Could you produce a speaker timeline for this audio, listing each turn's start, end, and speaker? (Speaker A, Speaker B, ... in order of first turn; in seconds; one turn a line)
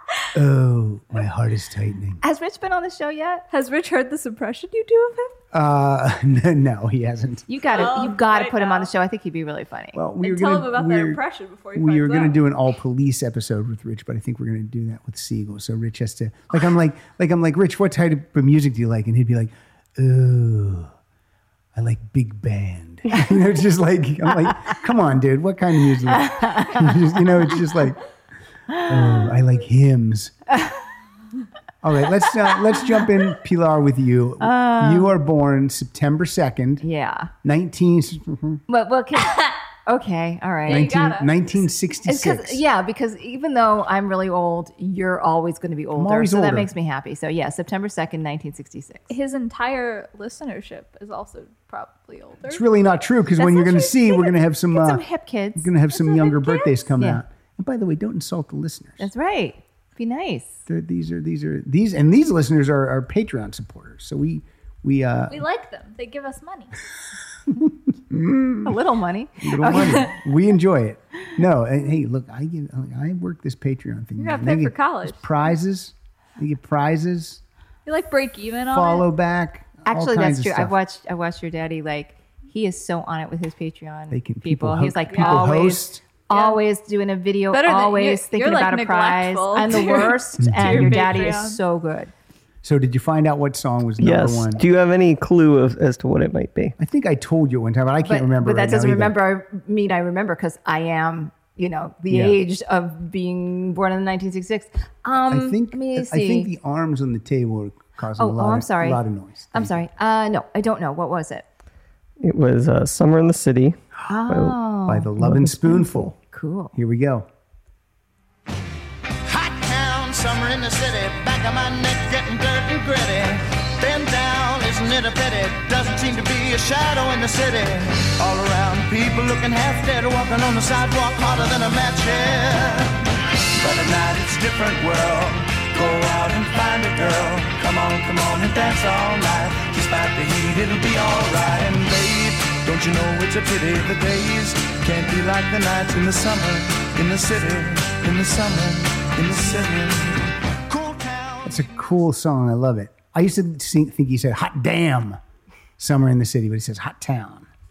Speaker A: 0.3-2.2
Speaker B: 2.2-3.5
Speaker C: 3.5-5.4
Speaker A: 5.5-7.5
Speaker B: 7.5-10.0
Speaker C: 7.7-8.9
Speaker A: 9.9-11.2
Speaker C: 10.2-12.5
Speaker A: 11.7-20.9
Speaker A: 21.8-28.0
Speaker B: 26.3-26.8
Speaker B: 28.7-29.2
Speaker A: 28.9-30.4
Speaker A: 31.8-36.8
Speaker B: 34.4-35.1
Speaker B: 36.8-37.3
Speaker A: 37.4-38.6
Speaker B: 38.7-41.0
Speaker C: 40.7-41.4
Speaker A: 40.7-42.6
Speaker B: 42.0-49.1
Speaker A: 46.0-46.7
Speaker C: 49.1-52.6
Speaker A: 52.5-55.0
Speaker B: 53.4-55.7
Speaker C: 53.4-53.7
Speaker A: 55.6-59.1
Speaker C: 56.2-56.6
Speaker B: 59.0-60.6
Speaker A: 60.7-65.5
Speaker C: 65.3-66.7
Speaker A: 68.1-68.8
Speaker B: 68.6-70.2
Speaker A: 69.4-77.4
Speaker C: 74.2-75.3
Speaker C: 77.9-79.1
Speaker A: 78.7-80.8
Speaker B: 79.8-92.1
Speaker A: 84.1-86.0
Speaker C: 85.1-85.5
Speaker C: 86.3-86.6
Speaker C: 87.5-91.6
Speaker A: 90.4-91.2
Speaker A: 92.6-94.6
Speaker D: 94.0-96.8
Speaker A: 96.8-99.2
Speaker B: 98.0-106.5
Speaker A: 102.1-102.4
Speaker A: 105.3-109.8
Speaker B: 108.2-109.0
Speaker B: 109.5-111.5
Speaker D: 112.2-113.8
Speaker B: 114.0-115.1
Speaker D: 114.3-114.6
Speaker A: 114.9-116.2
Speaker D: 115.2-115.6
Speaker B: 116.2-116.7
Speaker A: 116.7-117.3
Speaker E: 119.4-132.9
Speaker E: 133.6-151.5
Speaker A: 151.4-155.2
Speaker A: 155.8-157.5